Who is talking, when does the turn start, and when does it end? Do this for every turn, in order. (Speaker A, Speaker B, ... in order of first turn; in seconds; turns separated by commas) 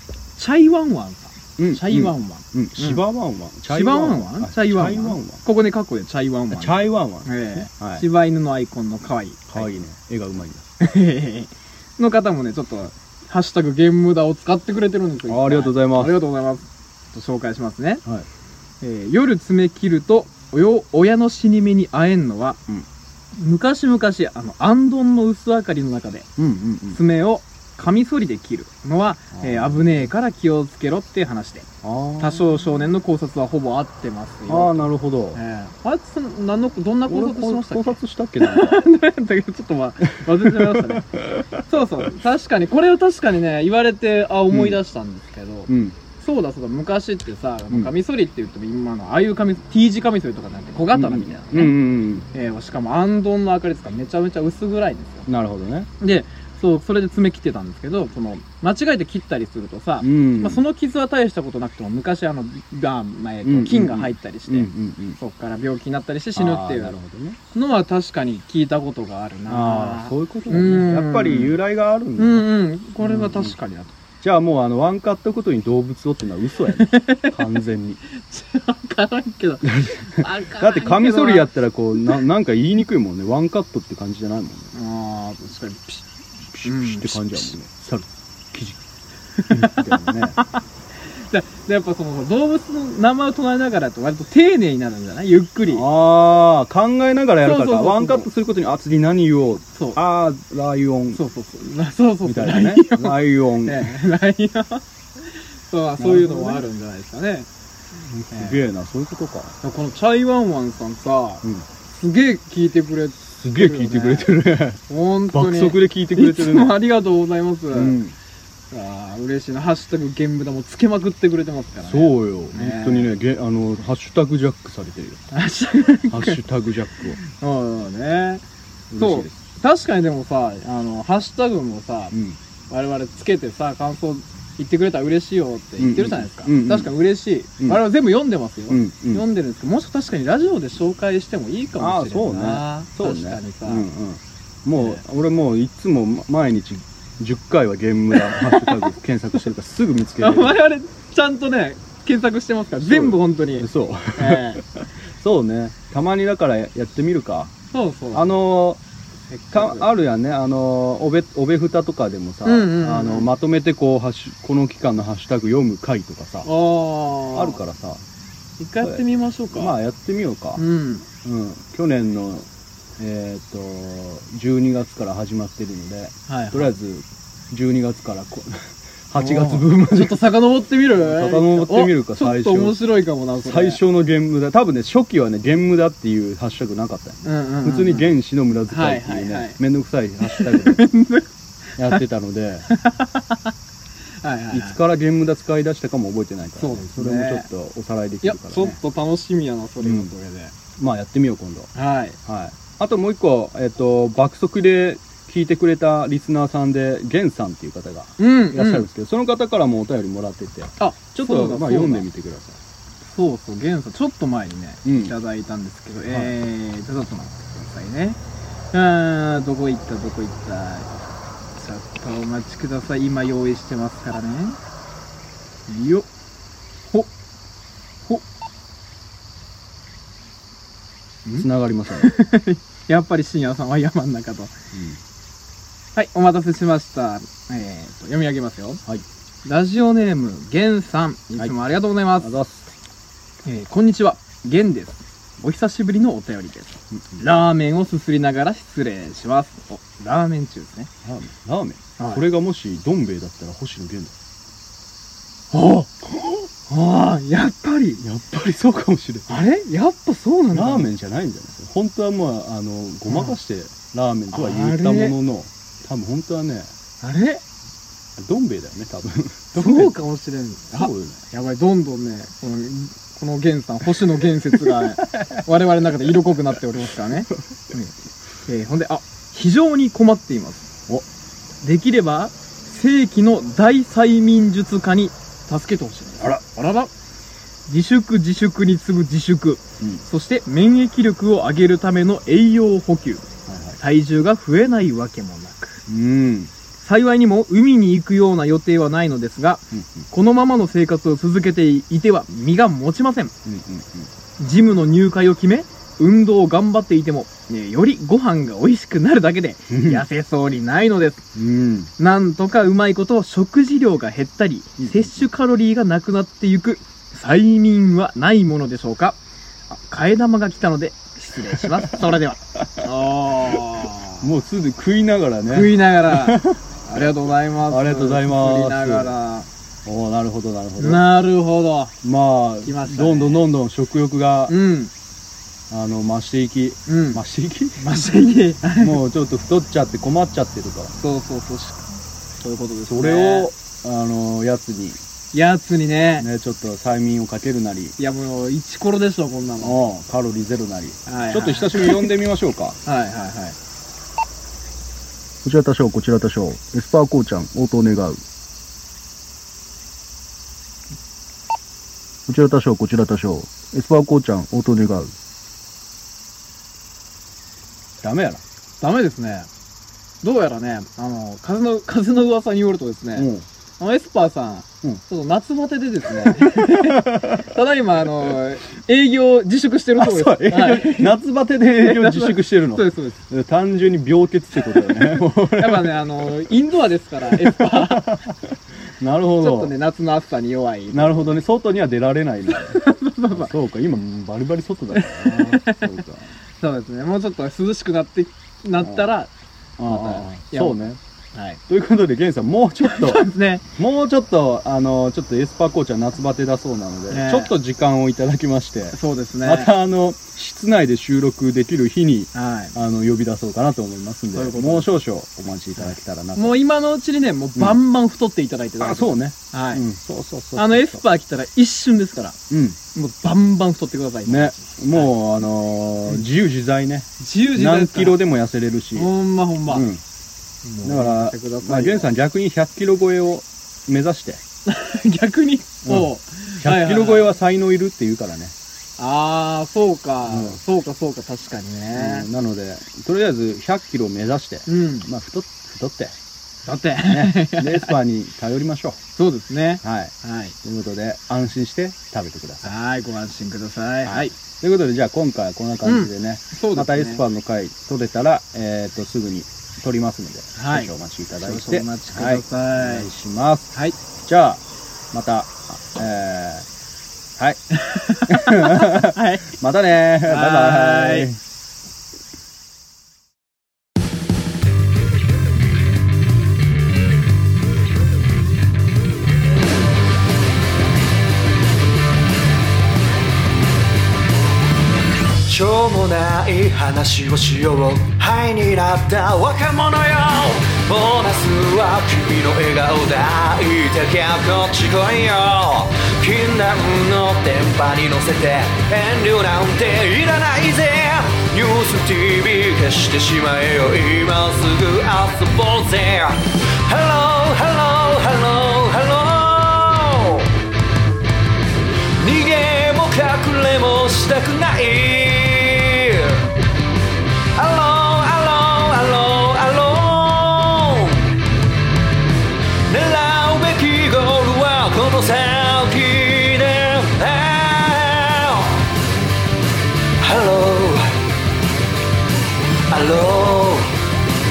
Speaker A: 0.3-3.0, Speaker B: 1.6-5.4, Speaker A: 3.7-9.7, Speaker B: 6.5-8.0, Speaker B: 9.5-10.6, Speaker A: 10.8-18.0, Speaker B: 15.3-16.2, Speaker A: 18.8-22.6, Speaker A: 23.4-26.3, Speaker B: 26.4-27.0, Speaker A: 26.9-31.7, Speaker B: 29.3-30.1, Speaker B: 31.8-32.5, Speaker A: 32.2-41.1, Speaker B: 34.5-35.4, Speaker B: 37.1-38.9, Speaker B: 40.3-41.5, Speaker A: 41.6-51.8, Speaker B: 44.5-44.8, Speaker B: 45.7-46.0, Speaker B: 50.9-52.2, Speaker A: 52.3-55.2, Speaker B: 55.2-55.9, Speaker A: 56.0-67.0, Speaker B: 60.0-60.6, Speaker B: 63.4-65.2, Speaker B: 66.3-67.4, Speaker A: 67.5-71.6, Speaker B: 69.5-73.5, Speaker A: 72.2-73.9, Speaker B: 74.2-78.0, Speaker A: 76.7-77.5, Speaker A: 78.2-82.2, Speaker B: 79.6-84.7, Speaker A: 84.7-86.0, Speaker B: 86.5-88.8, Speaker A: 86.6-87.5, Speaker A: 89.4-90.5, Speaker B: 89.5-90.4, Speaker A: 91.0-95.8, Speaker B: 95.7-101.2, Speaker A: 97.4-98.3, Speaker A: 101.1-107.5, Speaker B: 102.2-104.0, Speaker B: 106.0-106.7, Speaker B: 108.0-109.5, Speaker A: 108.3-108.6, Speaker A: 109.6-114.3, Speaker B: 113.3-116.7, Speaker A: 114.9-118.0, Speaker B: 117.7-118.1, Speaker A: 118.7-123.1, Speaker B: 121.8-125.2, Speaker A: 125.3-126.4, Speaker B: 126.1-127.2, Speaker A: 127.2-128.4, Speaker B: 128.9-129.3, Speaker A: 128.9-132.1, Speaker B: 132.1-132.4, Speaker A: 132.7-143.9, Speaker B: 135.8-136.9, Speaker B: 138.7-139.2, Speaker B: 141.8-150.6, Speaker A: 144.8-145.0, Speaker A: 148.2-148.9, Speaker A: 150.2-154.6, Speaker B: 152.8-157.5, Speaker A: 157.7-158.3, Speaker B: 158.1-158.8, Speaker A: 159.3-159.9, Speaker B: 159.5-166.5, Speaker A: 162.4-163.3, Speaker A: 166.4-167.6, Speaker B: 167.3-168.0, Speaker A: 168.6-169.7, Speaker B: 168.8-170.6, Speaker A: 170.6-171.1, Speaker B: 171.2-172.5, Speaker B: 173.0-180.3, Speaker A: 176.3-176.7, Speaker A: 179.2-183.8, Speaker B: 180.9-182.8, Speaker B: 183.4-190.8, Speaker A: 187.2-188.1, Speaker A: 188.7-189.6, Speaker A: 190.2-191.3, Speaker B: 191.8-192.7, Speaker A: 192.7-193.5, Speaker A: 194.2-194.8, Speaker B: 194.5-198.8, Speaker A: 196.6-197.5, Speaker A: 198.2-200.5, Speaker B: 199.8-200.1, Speaker B: 200.8-201.7, Speaker A: 201.7-202.2, Speaker B: 202.2-212.6, Speaker A: 208.2-208.9, Speaker A: 210.8-212.1, Speaker A: 213.0-218.2, Speaker B: 214.8-215.1, Speaker B: 216.1-216.3, Speaker A: 218.7-224.6, Speaker A: 225.7-226.1, Speaker A: 231.2-234.5, Speaker B: 231.3-232.1, Speaker B: 234.7-235.0, Speaker A: 235.9-238.8, Speaker A: 239.4-242.3, Speaker B: 242.2-242.7, Speaker A: 243.4-250.9, Speaker B: 247.0-247.2, Speaker B: 251.0-254.1, Speaker A: 252.0-252.2, Speaker A: 255.5-258.0, Speaker B: 258.0-259.4, Speaker A: 259.3-260.9, Speaker B: 260.5-266.7, Speaker A: 263.1-263.4, Speaker A: 264.3-265.1, Speaker A: 267.0-267.4, Speaker B: 268.2-269.9, Speaker A: 269.5-277.9, Speaker B: 270.7-271.2, Speaker B: 274.6-275.2, Speaker A: 278.4-280.7, Speaker A: 281.6-286.9, Speaker A: 287.7-293.3, Speaker B: 293.5-293.8, Speaker A: 293.8-295.8, Speaker B: 295.9-296.5, Speaker A: 296.8-303.3, Speaker B: 299.7-300.0, Speaker B: 303.4-304.1, Speaker A: 304.4-311.2, Speaker B: 309.7-310.1, Speaker B: 311.3-311.9, Speaker A: 312.0-319.2, Speaker B: 314.8-315.2, Speaker A: 319.7-324.3, Speaker B: 324.2-326.6, Speaker A: 325.5-329.5, Speaker B: 327.7-329.1, Speaker B: 329.9-331.1, Speaker A: 330.8-331.9, Speaker B: 332.0-334.5, Speaker A: 332.6-333.4, Speaker A: 334.5-334.9, Speaker B: 335.7-337.8, Speaker A: 336.9-337.2, Speaker A: 337.8-339.0, Speaker B: 338.8-340.9, Speaker A: 341.0-343.5, Speaker B: 342.9-345.0, Speaker A: 345.3-346.3, Speaker B: 346.2-347.9, Speaker A: 348.0-349.8, Speaker B: 349.6-352.8, Speaker A: 351.1-352.1, Speaker A: 352.8-353.6, Speaker B: 355.4-358.2, Speaker B: 362.3-365.1, Speaker B: 368.0-368.4, Speaker A: 368.8-369.5, Speaker A: 370.2-381.2, Speaker B: 373.1-373.4, Speaker B: 376.1-377.4, Speaker B: 380.0-386.5, Speaker A: 381.8-383.2, Speaker A: 384.6-388.2, Speaker B: 387.3-388.3, Speaker B: 389.0-389.7, Speaker A: 389.4-391.4, Speaker B: 390.9-396.3, Speaker A: 392.5-393.5, Speaker A: 394.9-396.0, Speaker A: 396.6-400.8, Speaker B: 398.8-399.1, Speaker B: 399.8-401.0, Speaker A: 401.3-401.6, Speaker B: 401.7-416.6, Speaker A: 402.8-403.6, Speaker A: 407.1-407.5, Speaker A: 408.9-409.7, Speaker A: 412.3-412.7, Speaker A: 414.3-414.9, Speaker A: 415.8-419.8, Speaker B: 418.8-421.0, Speaker A: 420.6-422.4, Speaker B: 422.5-422.8, Speaker A: 422.9-425.2, Speaker B: 424.2-429.1, Speaker A: 427.2-428.2, Speaker A: 428.9-429.9, Speaker B: 429.6-430.0, Speaker A: 430.6-432.1, Speaker B: 430.8-434.4, Speaker A: 434.6-437.3, Speaker B: 435.8-438.5, Speaker A: 439.0-442.3, Speaker B: 440.2-440.6, Speaker B: 441.9-446.1, Speaker A: 444.7-445.1, Speaker A: 446.6-448.0, Speaker B: 447.1-449.0, Speaker A: 449.1-450.5, Speaker B: 449.8-452.7, Speaker A: 452.6-454.4, Speaker B: 454.0-463.7, Speaker A: 455.8-457.2, Speaker A: 460.6-463.1, Speaker B: 464.2-466.6, Speaker A: 467.7-469.5, Speaker B: 468.3-471.4, Speaker A: 470.2-471.3, Speaker C: 485.4-510.5, Speaker C: 512.2-516.5, Speaker C: 517.5-521.3, Speaker C: 522.9-528.9, Speaker C: 530.2-531.1, Speaker C: 532.9-533.9